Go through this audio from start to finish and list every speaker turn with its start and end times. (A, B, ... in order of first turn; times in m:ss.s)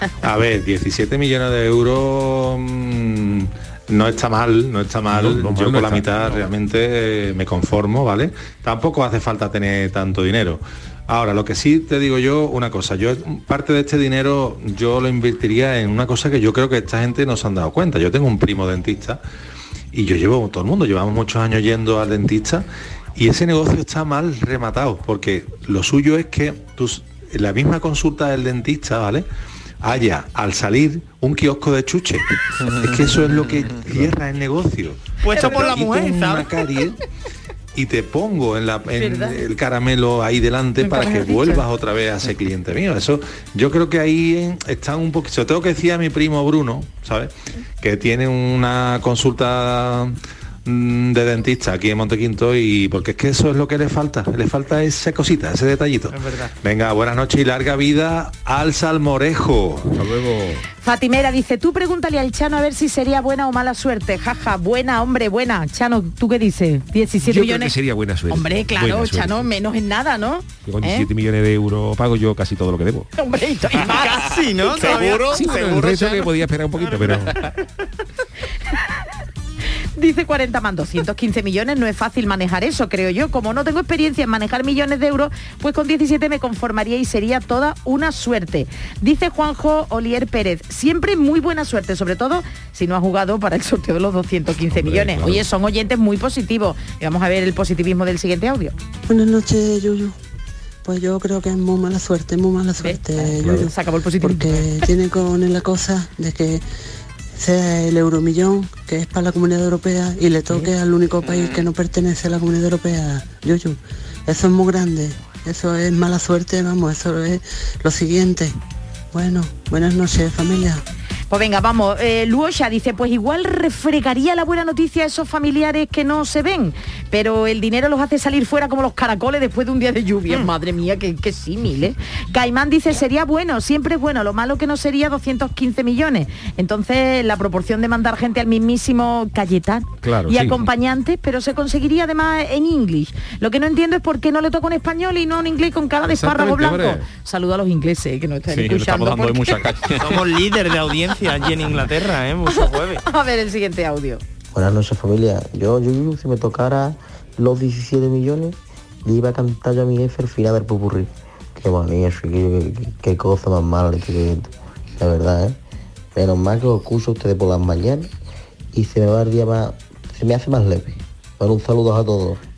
0:00.2-0:19.2 A
0:05.1-0:06.4 B
0:19.9-0:29.3 A
0:29.8-0:37.0 A
0:35.2-0:36.5 C
0:35.4-0:35.7 D
0:37.7-0:59.9 A
0:38.9-0:39.4 D
0:40.8-0:41.6 D
0:56.1-0:56.5 C
0:59.9-1:00.6 B
1:00.8-1:07.8 D
1:07.2-1:09.5 B
1:08.3-1:11.1 D
1:10.6-1:13.1 B
1:13.2-1:14.3 D
1:13.8-1:15.8 C
1:14.6-1:16.3 E
1:15.2-1:17.4 B
1:16.9-1:17.5 C
1:20.0-1:38.8 D
1:34.7-1:35.5 B
1:39.1-1:40.2 F
1:40.8-1:46.6 F
1:42.8-1:44.7 D
1:47.3-1:58.5 F
1:59.1-2:00.8 F
2:01.3-2:29.6 D
2:20.0-2:20.6 B
2:26.1-2:27.1 B
2:28.5-2:30.2 E
2:30.0-2:33.0 C
2:32.5-2:34.2 D
2:34.5-2:45.6 G
2:46.2-2:48.1 G
2:48.7-2:52.4 G